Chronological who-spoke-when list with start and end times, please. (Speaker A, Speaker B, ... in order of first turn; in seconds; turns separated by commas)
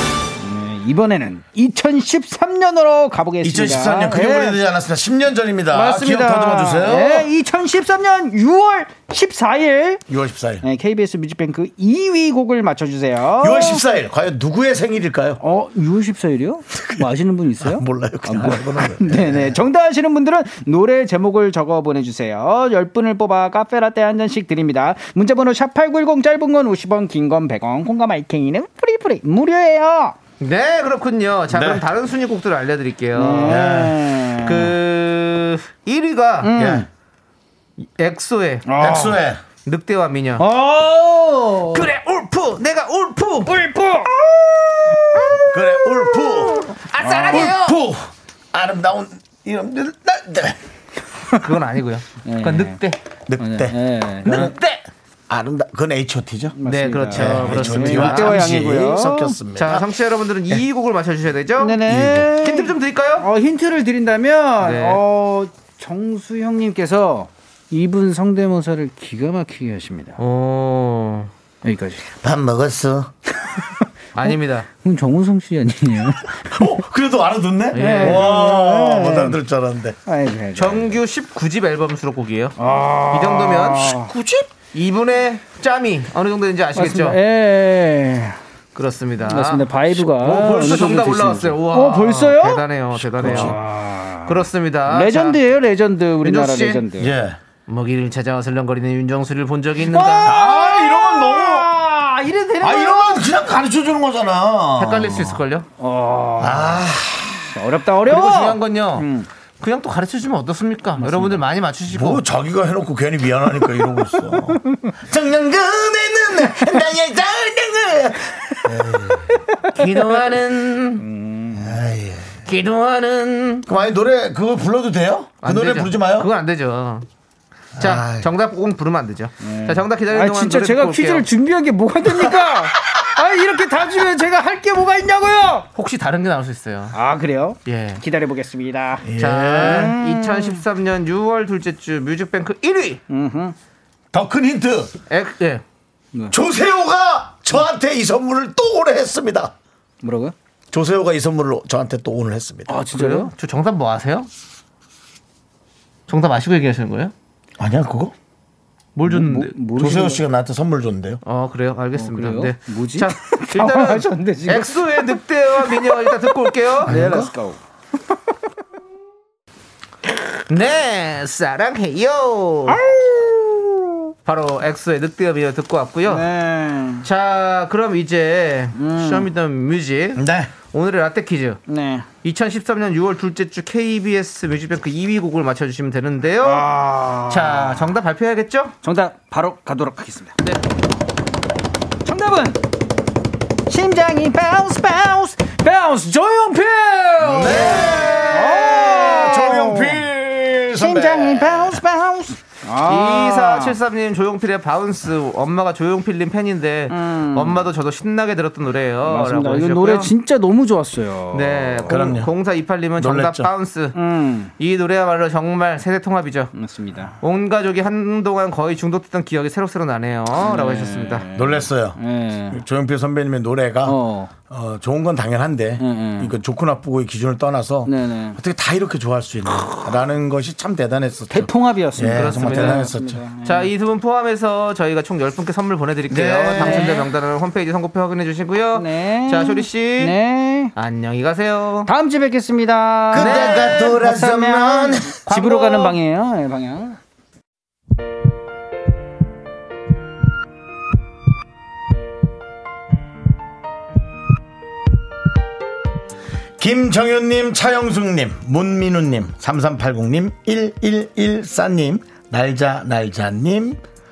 Speaker A: 0.4-4.6, Speaker B: 3.4-7.3, Speaker A: 5.7-10.0, Speaker B: 10.1-10.6, Speaker A: 10.6-13.9, Speaker B: 13.4-15.4, Speaker A: 15.4-30.2, Speaker B: 16.8-19.6, Speaker C: 30.4-36.5, Speaker B: 31.5-31.9, Speaker A: 33.1-34.7, Speaker B: 33.4-34.1, Speaker A: 36.4-36.9, Speaker B: 36.5-36.9, Speaker C: 38.0-39.1, Speaker A: 38.7-39.2, Speaker B: 38.8-39.4, Speaker C: 39.6-40.5, Speaker A: 40.4-41.9, Speaker C: 41.7-43.6, Speaker A: 43.5-44.2, Speaker C: 44.9-45.2, Speaker A: 45.1-46.4, Speaker B: 45.4-46.6, Speaker C: 46.7-47.8, Speaker A: 47.0-47.5, Speaker B: 47.3-50.6, Speaker C: 51.3-53.0, Speaker A: 52.2-52.8, Speaker B: 53.3-54.6, Speaker A: 53.4-54.5, Speaker C: 54.2-54.8, Speaker B: 55.3-56.6, Speaker A: 56.6-59.4, Speaker C: 56.6-58.5, Speaker B: 57.1-59.9, Speaker C: 59.6-63.3, Speaker A: 61.6-70.2, Speaker B: 61.9-62.3, Speaker C: 64.6-65.0, Speaker C: 70.2-71.3, Speaker A: 71.6-72.0, Speaker B: 72.1-73.1, Speaker A: 73.5-76.7, Speaker C: 74.2-74.7, Speaker B: 76.5-80.0, Speaker C: 77.7-78.4, Speaker A: 77.7-79.4, Speaker A: 80.1-81.0, Speaker C: 80.5-82.6, Speaker A: 82.6-84.1, Speaker C: 83.1-83.9, Speaker B: 83.9-84.5, Speaker C: 84.7-87.2, Speaker A: 86.8-88.4, Speaker C: 88.8-93.6, Speaker A: 89.3-92.7, Speaker B: 90.3-91.0, Speaker B: 93.0-93.6, Speaker A: 93.2-97.1, Speaker C: 94.2-95.4, Speaker C: 96.2-96.8, Speaker B: 97.0-97.4, Speaker C: 97.7-100.4, Speaker A: 99.8-103.3, Speaker B: 100.2-101.7, Speaker B: 102.6-105.4, Speaker C: 104.8-105.7, Speaker A: 105.8-109.3, Speaker B: 106.4-107.4, Speaker C: 108.1-109.1, Speaker C: 109.6-112.2, Speaker A: 111.0-111.5, Speaker B: 111.9-119.3, Speaker C: 119.7-121.1, Speaker A: 121.0-121.8, Speaker B: 121.5-122.4, Speaker C: 122.5-123.7, Speaker B: 123.7-126.3, Speaker C: 125.4-127.1, Speaker B: 127.8-128.3, Speaker C: 127.8-131.3, Speaker A: 129.4-135.7, Speaker C: 135.8-137.0, Speaker A: 136.9-140.6, Speaker C: 137.7-138.0, Speaker B: 139.0-139.9, Speaker C: 139.2-143.0, Speaker A: 143.1-143.6, Speaker B: 144.1-144.9, Speaker C: 145.1-145.6, Speaker B: 146.3-149.5, Speaker A: 150.0-150.3, Speaker B: 150.7-152.8, Speaker A: 152.7-153.3, Speaker C: 152.9-154.3, Speaker C: 156.1-157.1, Speaker B: 157.6-158.1, Speaker C: 158.9-159.6, Speaker A: 159.1-160.2, Speaker B: 159.7-161.2, Speaker C: 161.2-167.0, Speaker A: 161.9-167.6, Speaker B: 166.9-167.3, Speaker C: 170.5-172.8, Speaker A: 172.7-173.9, Speaker C: 174.2-176.3, Speaker A: 176.1-177.1, Speaker C: 177.0-181.6, Speaker A: 178.8-179.3, Speaker B: 180.2-180.5, Speaker A: 181.7-182.1, Speaker C: 182.2-186.7, Speaker A: 186.4-187.9, Speaker C: 187.3-188.8, Speaker A: 188.8-190.4, Speaker A: 192.0-192.6, Speaker A: 193.7-200.1, Speaker B: 197.2-201.8, Speaker C: 197.5-198.1, Speaker A: 200.7-203.8, Speaker C: 202.8-210.1, Speaker A: 206.9-207.7, Speaker A: 209.0-212.0, Speaker C: 211.3-214.0, Speaker B: 211.9-212.3, Speaker B: 213.0-213.5, Speaker A: 213.9-214.5, Speaker C: 214.6-216.5, Speaker A: 216.6-217.2, Speaker C: 217.2-221.3, Speaker A: 220.3-222.6, Speaker B: 221.3-233.2, Speaker A: 223.8-224.3, Speaker A: 225.8-226.3, Speaker A: 227.9-228.4, Speaker A: 231.3-233.7, Speaker C: 232.1-240.2, Speaker B: 236.1-237.0, Speaker A: 236.6-237.1, Speaker A: 238.7-240.7, Speaker C: 240.8-241.9, Speaker A: 241.9-247.0, Speaker C: 243.1-244.0, Speaker B: 243.1-245.2, Speaker C: 245.3-246.0, Speaker B: 256.6-263.8